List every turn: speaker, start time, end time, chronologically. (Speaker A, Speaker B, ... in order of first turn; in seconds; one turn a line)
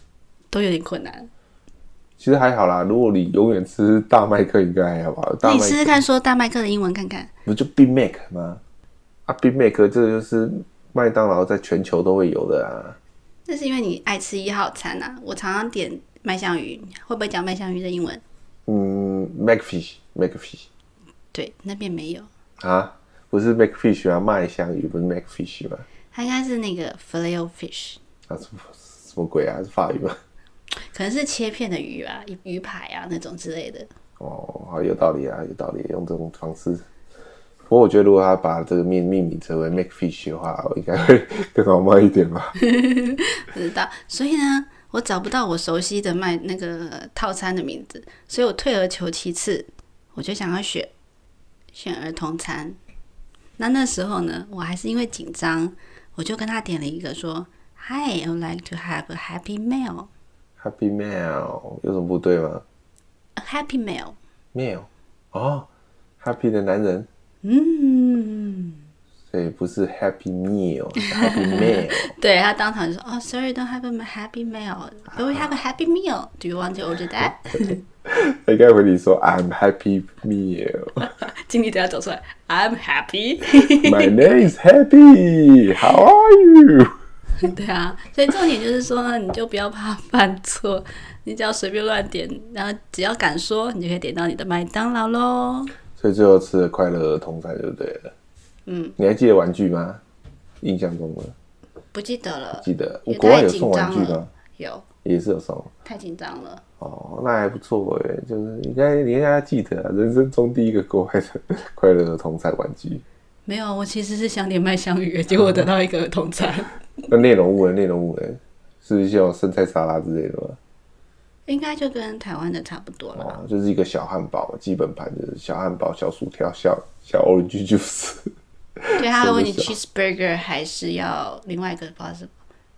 Speaker A: 0.5-1.3
Speaker B: 2.2-5.8
Speaker A: 5.4-7.3
Speaker B: 7.5-8.6
Speaker B: 9.3-13.0
Speaker A: 13.5-18.2
Speaker B: 18.7-20.7
Speaker A: 21.3-22.3
Speaker B: 22.6-25.9
Speaker A: 26.1-28.0
Speaker B: 28.3-30.1
Speaker A: 30.9-33.9
Speaker B: 34.2-36.8
Speaker B: 37.7-42.5
Speaker A: 42.6-50.9
Speaker A: 51.7-52.8
Speaker A: 53.6-60.1
Speaker B: 60.6-62.6
Speaker A: 63.4-64.2
Speaker B: 64.5-65.7
Speaker B: 66.2-67.1
Speaker A: 67.4-68.8
Speaker B: 69.3-72.1
Speaker A: 71.2-77.8
Speaker B: 78.0-81.1
Speaker A: 81.0-84.1
Speaker B: 83.8-86.9
Speaker A: 87.4-95.7
Speaker B: 96.0-98.1
Speaker A: 98.7-99.0
Speaker B: 99.0-100.0
Speaker B: 100.6-101.3
Speaker A: 101.9-104.8
Speaker B: 102.6-104.3
Speaker B: 105.0-105.7
Speaker A: 105.8-106.6
Speaker B: 106.8-113.0
Speaker A: 113.5-116.8
Speaker B: 117.1-120.6
Speaker A: 121.5-123.4
Speaker B: 123.1-129.7
Speaker A: 128.9-132.3